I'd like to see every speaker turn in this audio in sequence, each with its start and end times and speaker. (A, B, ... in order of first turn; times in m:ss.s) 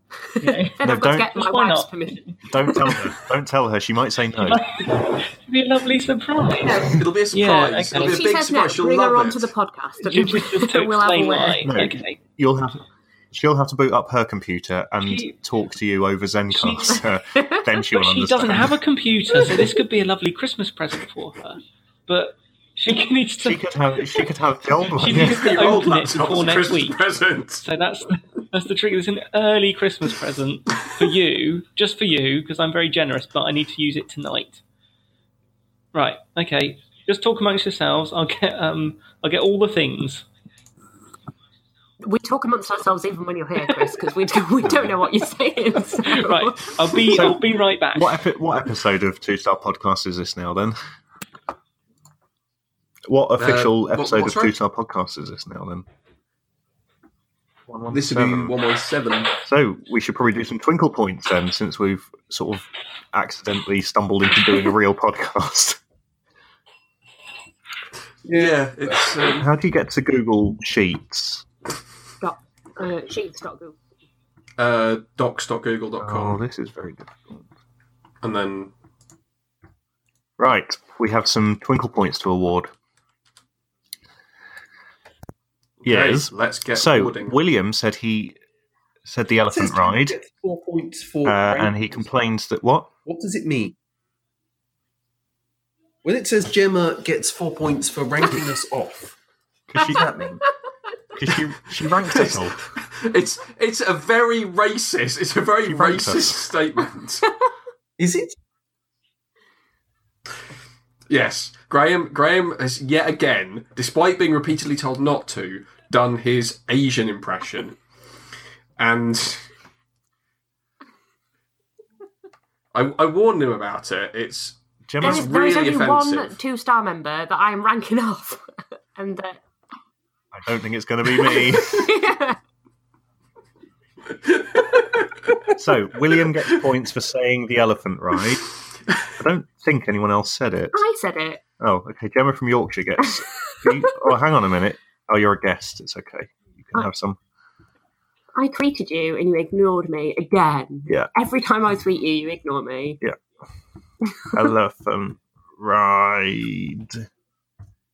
0:00.4-0:02.4 A
0:00.4-0:03.1 B
0:00.8-0:01.3 C
0:02.5-0:04.6 C
0:04.4-0:08.2 A
0:06.6-0:07.0 B
0:06.9-0:09.5 D
0:08.0-0:11.7 B
0:10.0-0:12.2 A
0:11.6-0:18.8 C
0:15.0-0:15.4 A
0:16.5-0:17.0 A
0:17.4-0:17.6 B
0:17.9-0:23.6 A
0:23.4-0:25.4 C
0:25.0-0:27.0 A
0:25.0-0:27.6 D
0:27.6-0:34.6 A
0:35.9-0:40.2 A
0:42.0-0:47.0 B
0:44.7-0:44.9 C
0:46.0-0:48.2 A
0:47.1-0:47.4 C
0:47.9-0:50.8 C
0:53.1-0:55.9 C
0:53.4-0:54.6 D
0:57.7-0:58.6 C
0:57.9-0:59.4 D
0:59.4-1:05.8 C
1:08.3-1:09.3 E
1:08.3-1:09.5 D
1:09.4-1:11.5 C
1:12.2-1:13.8 B
1:14.6-1:16.4 D
1:16.0-1:17.5 C
1:18.2-1:18.7 D
1:20.4-1:22.7 C
1:25.8-1:27.4 D
1:25.8-1:28.4 C
1:29.0-1:30.2 C
1:29.5-1:32.0 E
1:31.3-1:32.9 C
1:33.1-1:33.8 E
1:36.0-1:39.2 E
1:39.7-1:40.4 C
1:41.2-1:42.6 C
1:42.0-1:47.3 D
1:45.7-1:46.4 C
1:48.0-1:48.4 E
1:51.1-1:57.8 D
1:58.8-1:59.5 D
2:02.7-2:06.4 D
2:04.9-2:05.4 C
2:05.0-2:08.4 B
2:09.0-2:09.4 B
2:10.3-2:11.9 C
2:11.1-2:12.4 B
2:14.3-2:15.0 D
2:15.6-2:18.5 C
2:19.1-2:20.8 C
2:20.7-2:21.4 B
2:21.6-2:27.2 C
2:23.2-2:23.9 B
2:28.4-2:33.0 B
2:34.3-2:37.0 C